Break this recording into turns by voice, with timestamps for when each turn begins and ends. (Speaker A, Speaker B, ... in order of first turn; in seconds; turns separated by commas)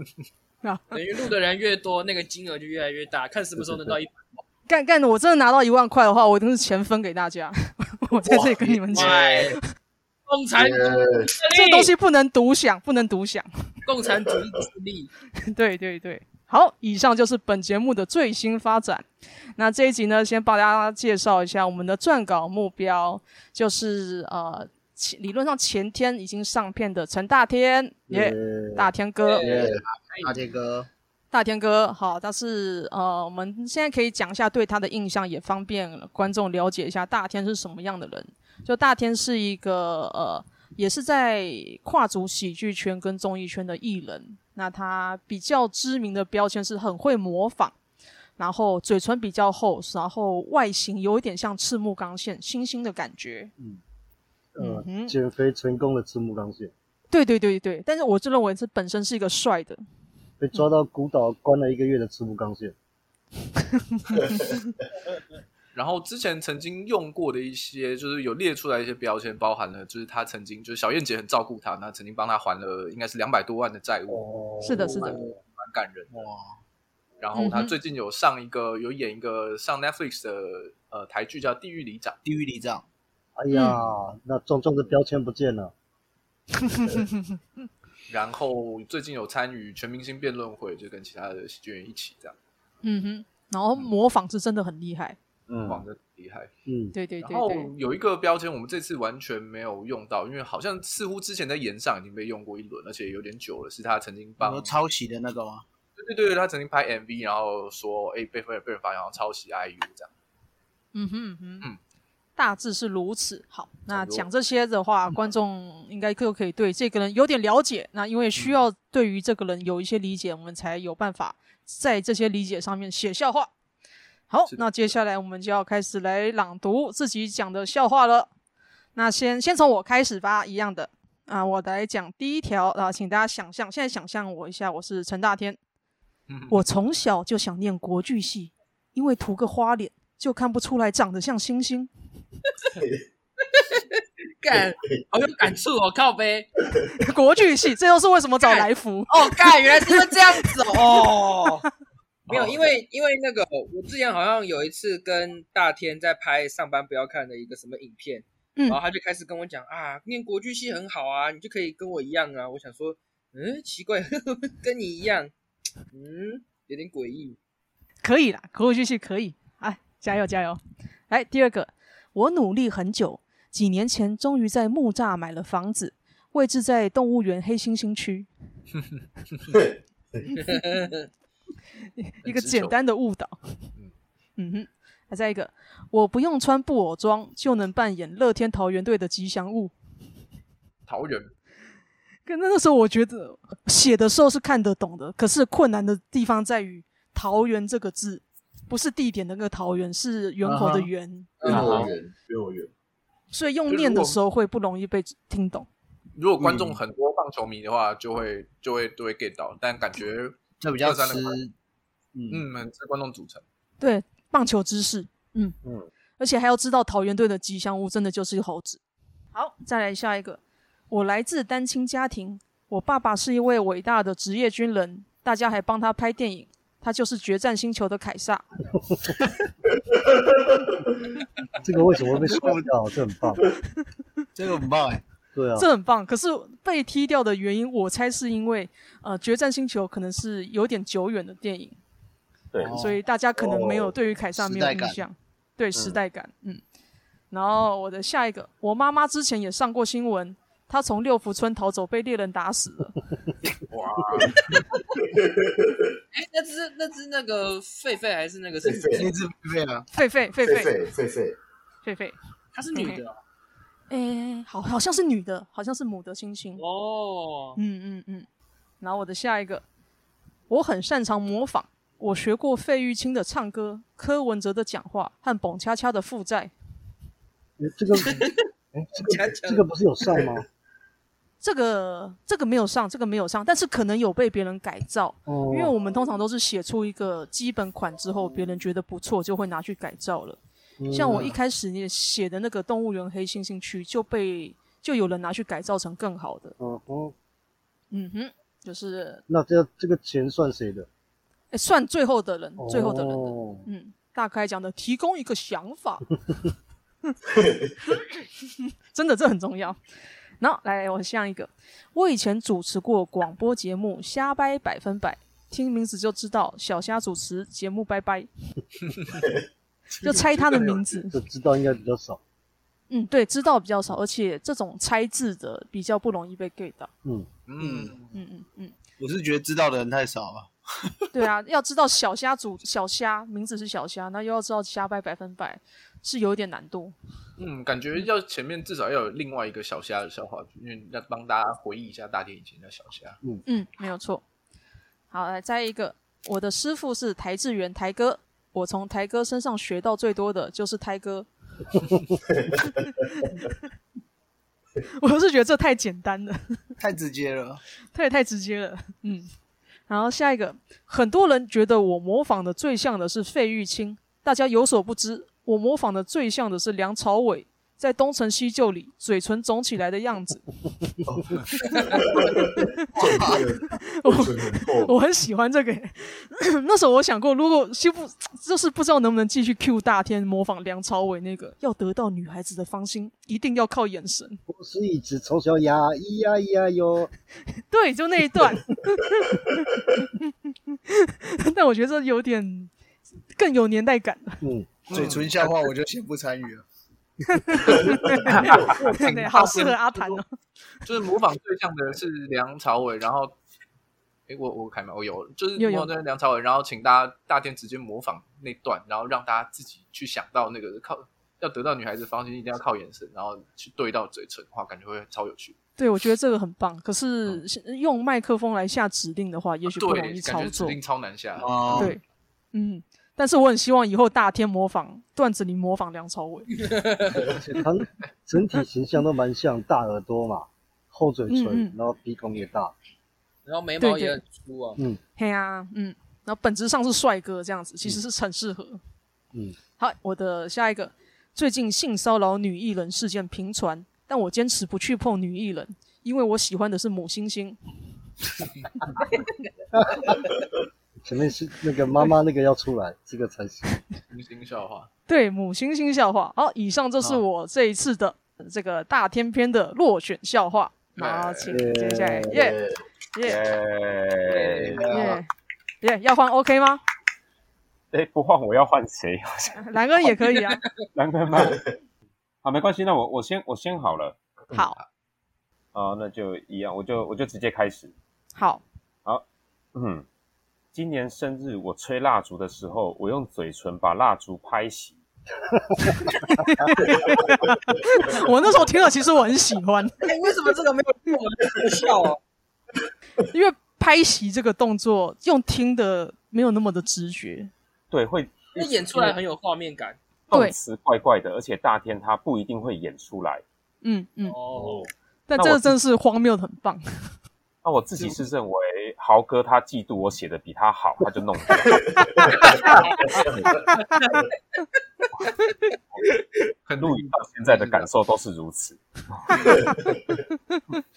Speaker A: 0.6-0.9, Speaker B: 0.9-4.4, Speaker C: 3.6-4.0, Speaker A: 4.7-9.7, Speaker D: 8.2-9.4, Speaker B: 8.9-9.6, Speaker B: 10.3-11.9, Speaker D: 10.6-11.3, Speaker A: 11.5-13.5, Speaker B: 13.8-15.1, Speaker A: 15.4-19.1, Speaker A: 19.6-29.4, Speaker C: 28.1-28.9, Speaker B: 29.2-30.4, Speaker E: 29.4-30.9, Speaker C: 29.4-29.7, Speaker A: 31.3-47.8, Speaker A: 48.4-53.5, Speaker C: 54.5-56.7, Speaker A: 54.6-55.1, Speaker A: 57.1-59.8, Speaker C: 60.4-62.8, Speaker A: 63.9-64.2, Speaker F: 65.7-74.2, Speaker C: 74.1-75.1, Speaker A: 74.6-75.2, Speaker F: 74.8-76.1, Speaker E: 75.0-75.3, Speaker E: 76.1-76.6, Speaker F: 77.2-82.2, Speaker A: 77.3-77.7, Speaker E: 82.2-82.8, Speaker C: 83.4-85.7, Speaker A: 83.5-83.8, Speaker A: 86.6-87.2, Speaker F: 88.1-92.4, Speaker A: 92.8-95.2, Speaker G: 95.5-95.8, Speaker F: 95.6-96.5, Speaker C: 96.7-96.9, Speaker A: 96.9-97.7, Speaker F: 97.2-104.7, Speaker E: 104.4-105.6, Speaker F: 106.0-110.1, Speaker A: 110.9-111.7, Speaker A: 112.4-123.5, Speaker F: 113.9-114.3, Speaker A: 124.3-128.3, Speaker F: 124.5-124.9, Speaker A: 128.9-135.6, Speaker F: 136.3-136.6, Speaker A: 136.5-141.9, Speaker B: 143.5-146.5, Speaker D: 144.5-145.0, Speaker A: 147.0-150.2, Speaker B: 148.5-151.7, Speaker B: 152.3-165.3, Speaker B: 165.9-167.4, Speaker A: 168.0-178.3, Speaker B: 180.5-180.9, Speaker A: 182.0-183.7, Speaker F: 182.3-182.7, Speaker A: 184.4-189.7, Speaker F: 190.9-191.3, Speaker A: 192.3-201.6, Speaker E: 200.4-200.9, Speaker D: 201.4-202.7, Speaker B: 201.4-201.9, Speaker E: 201.5-201.9, Speaker A: 203.3-205.7, Speaker F: 203.7-204.2, Speaker F: 206.2-211.4, Speaker E: 206.4-206.8, Speaker E: 210.6-211.5, Speaker E: 212.2-212.4, Speaker F: 212.3-213.4, Speaker A: 213.8-215.6, Speaker G: 215.6-215.9, Speaker A: 216.2-218.8, Speaker A: 219.3-228.5, Speaker C: 231.6-233.4, Speaker E: 232.2-232.7, Speaker E: 234.3-235.0, Speaker C: 235.3-235.7, Speaker A: 235.6-241.8, Speaker G: 242.5-242.9, Speaker E: 242.6-243.9, Speaker A: 242.7-246.6, Speaker E: 244.4-245.0, Speaker G: 245.8-246.0, Speaker A: 247.3-253.0, Speaker F: 253.7-254.2, Speaker E: 254.0-254.3, Speaker D: 255.2-255.9, Speaker B: 256.1-259.1, Speaker D: 258.6-259.1, Speaker E: 258.9-259.9, Speaker A: 259.9-260.7, Speaker D: 260.4-261.4, Speaker A: 261.9-262.1, Speaker B: 262.6-263.2, Speaker A: 262.7-263.0, Speaker A: 263.9-266.6, Speaker B: 266.6-267.6, Speaker A: 267.6-268.3, Speaker A: 268.8-269.6, Speaker A: 270.5-276.5, Speaker C: 277.6-280.4, Speaker B: 278.0-278.4, Speaker B: 279.0-279.6, Speaker A: 281.4-290.4, Speaker C: 285.3-285.7, Speaker C: 290.8-291.4, Speaker A: 290.9-296.6, Speaker C: 296.6-297.1, Speaker A: 297.9-299.2, Speaker C: 299.3-300.9, Speaker A: 301.5-306.1, Speaker C: 302.6-303.7, Speaker A: 308.9-309.8, Speaker A: 310.4-318.3, Speaker A: 320.0-321.2, Speaker F: 320.1-320.8, Speaker C: 321.1-322.2, Speaker A: 322.9-326.9, Speaker F: 327.5-328.1, Speaker E: 327.6-328.0, Speaker A: 328.1-328.7, Speaker E: 329.0-330.9, Speaker A: 331.1-336.9, Speaker F: 337.4-343.2, Speaker A: 343.5-344.2, Speaker A: 345.1-351.3, Speaker D: 352.5-352.8, Speaker A: 355.0-356.6, Speaker E: 356.8-357.6, Speaker A: 357.9-359.3, Speaker A: 359.9-370.5, Speaker D: 371.1-375.0, Speaker A: 372.5-373.2, Speaker E: 373.0-373.4, Speaker A: 374.0-384.4, Speaker C: 384.5-387.1, Speaker A: 387.7-392.7, Speaker A: 393.4-394.4, Speaker C: 394.4-394.7, Speaker E: 394.9-396.6, Speaker F: 394.9-395.5, Speaker A: 397.3-400.3, Speaker D: 397.8-398.7, Speaker G: 398.3-398.7, Speaker F: 398.5-400.2, Speaker F: 400.9-403.4, Speaker F: 404.3-415.6, Speaker A: 405.6-405.9, Speaker A: 415.8-420.8, Speaker F: 419.7-422.0, Speaker E: 421.4-421.9, Speaker A: 421.8-422.0, Speaker A: 422.5-426.6, Speaker B: 426.6-427.1, Speaker C: 427.3-432.7, Speaker A: 431.3-431.7, Speaker B: 433.5-434.8, Speaker A: 433.8-434.2, Speaker A: 435.2-438.8, Speaker A: 439.8-447.6, Speaker C: 449.7-450.1, Speaker C: 451.0-453.7, Speaker F: 454.1-454.9, Speaker A: 455.1-462.6, Speaker F: 461.0-461.6, Speaker C: 461.5-462.4, Speaker D: 462.3-462.8, Speaker A: 463.1-463.4, Speaker G: 463.2-464.9, Speaker E: 464.5-465.1, Speaker A: 464.9-465.3, Speaker A: 465.8-466.8, Speaker G: 467.9-469.6, Speaker A: 469.6-470.6, Speaker G: 470.9-471.6, Speaker G: 472.4-474.2, Speaker A: 474.5-474.8, Speaker G: 475.7-477.9, Speaker A: 478.4-478.6, Speaker G: 479.8-480.1, Speaker G: 480.7-485.0, Speaker A: 486.0-490.0, Speaker B: 490.0-492.2, Speaker A: 493.3-497.5, Speaker G: 497.9-499.2, Speaker B: 498.5-500.0, Speaker G: 500.3-503.4, Speaker A: 503.8-504.4, Speaker B: 504.3-504.9, Speaker A: 505.3-507.1, Speaker G: 505.4-505.7, Speaker G: 507.6-512.3, Speaker D: 511.9-513.7, Speaker F: 516.7-517.9, Speaker G: 516.8-519.6, Speaker D: 519.4-520.0, Speaker A: 520.5-520.8